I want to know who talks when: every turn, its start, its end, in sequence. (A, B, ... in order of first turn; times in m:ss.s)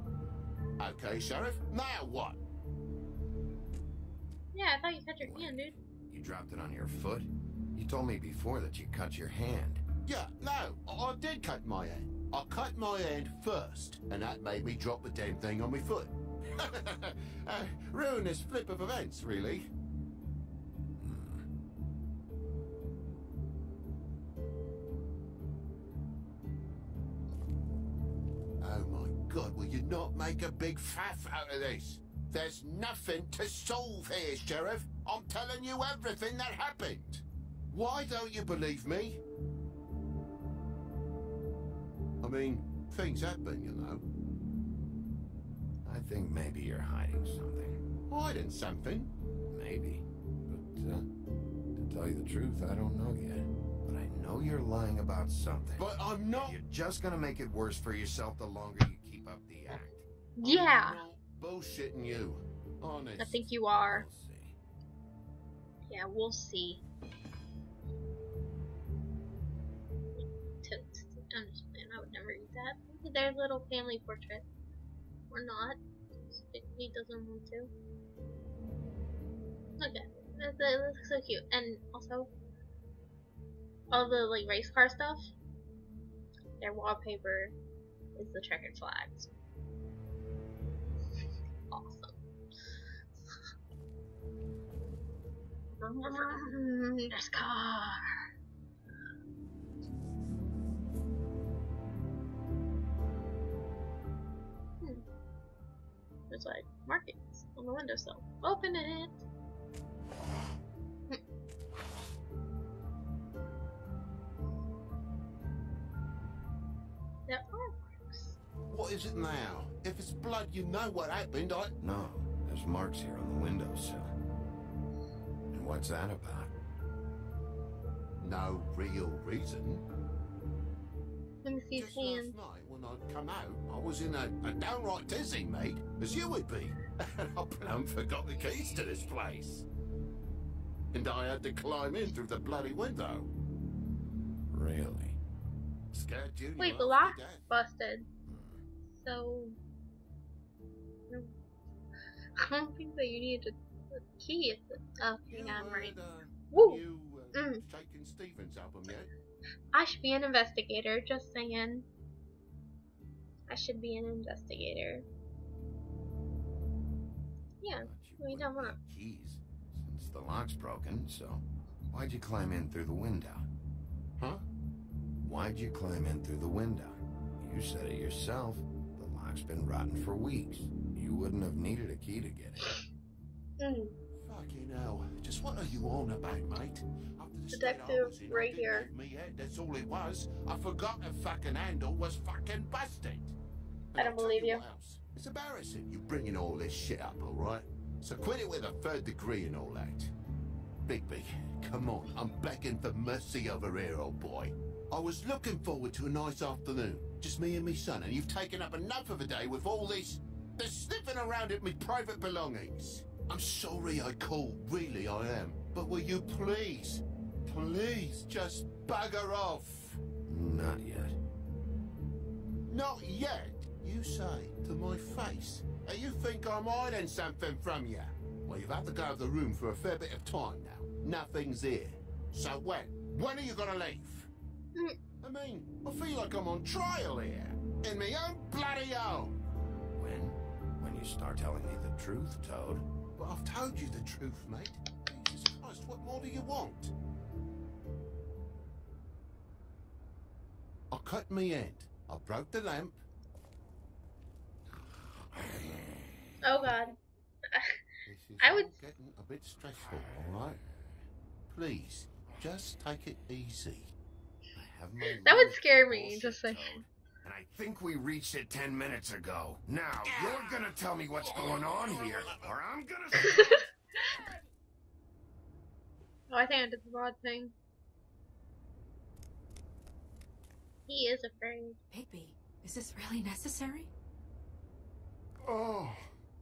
0:00.8-0:02.4 A
0:04.5-0:05.7 B
0:05.2-0:09.8 C
0:10.0-0:19.7 A
0:21.0-0:21.5 C
0:28.6-0:39.2 A
0:42.2-0:44.0 A
0:45.8-0:47.8 C
0:48.1-0:49.1 A
0:49.5-0:51.0 C
0:50.5-0:51.0 A
0:51.8-0:55.9 C
0:55.8-0:56.6 A
0:56.4-1:00.1 C
1:00.4-1:01.0 B
1:00.4-1:03.4 A
1:03.2-1:04.1 B
1:03.6-1:04.6 C
1:05.9-1:06.8 B
1:10.2-1:14.4 B
1:15.3-1:15.8 B
1:16.3-1:17.7 B
1:19.8-1:22.3 B
1:23.9-1:25.3 B
1:26.6-1:27.6 B
1:28.2-1:29.3 B
1:31.7-1:32.1 B
1:35.8-1:38.0 B
1:46.3-1:49.2 B
1:57.3-1:58.4 B
1:58.7-2:01.7 A
2:01.8-2:04.1 C
2:05.5-2:06.5 C
2:08.2-2:09.8 A
2:11.4-2:12.4 B
2:11.7-2:19.7 A
2:20.9-2:23.3 A
2:24.5-2:25.2 C
2:25.9-2:27.5 A
2:26.6-2:28.1 B
2:28.2-2:28.6 C
2:29.0-2:29.6 B
2:32.4-2:36.0 B
2:35.3-2:39.1 A
2:36.5-2:36.8 B
2:37.4-2:37.6 B
2:39.7-2:41.9 B
2:43.5-2:45.0 B
2:47.6-2:48.8 B
2:47.8-2:53.5 C
2:55.2-3:02.7 C
3:03.6-3:04.0 B
3:04.2-3:13.4 A
3:07.5-3:08.9 B
3:13.9-3:20.1 A
3:14.0-3:14.6 B
3:20.8-3:40.0 A
3:40.3-3:41.2 C
3:42.7-3:54.3 A
3:55.2-3:59.4 A
4:00.0-4:02.8 C
4:03.2-4:06.9 A
4:10.9-4:13.0 A
4:15.3-4:16.7 C
4:16.4-4:17.0 B
4:17.5-4:17.8 B
4:18.1-4:20.6 A
4:18.4-4:18.8 B
4:21.5-4:23.9 A
4:24.6-4:33.7 C
4:25.0-4:26.7 B
4:33.2-4:33.6 B
4:36.3-4:37.5 B
4:40.9-4:41.8 B
4:41.9-4:43.9 D
4:45.4-4:46.1 A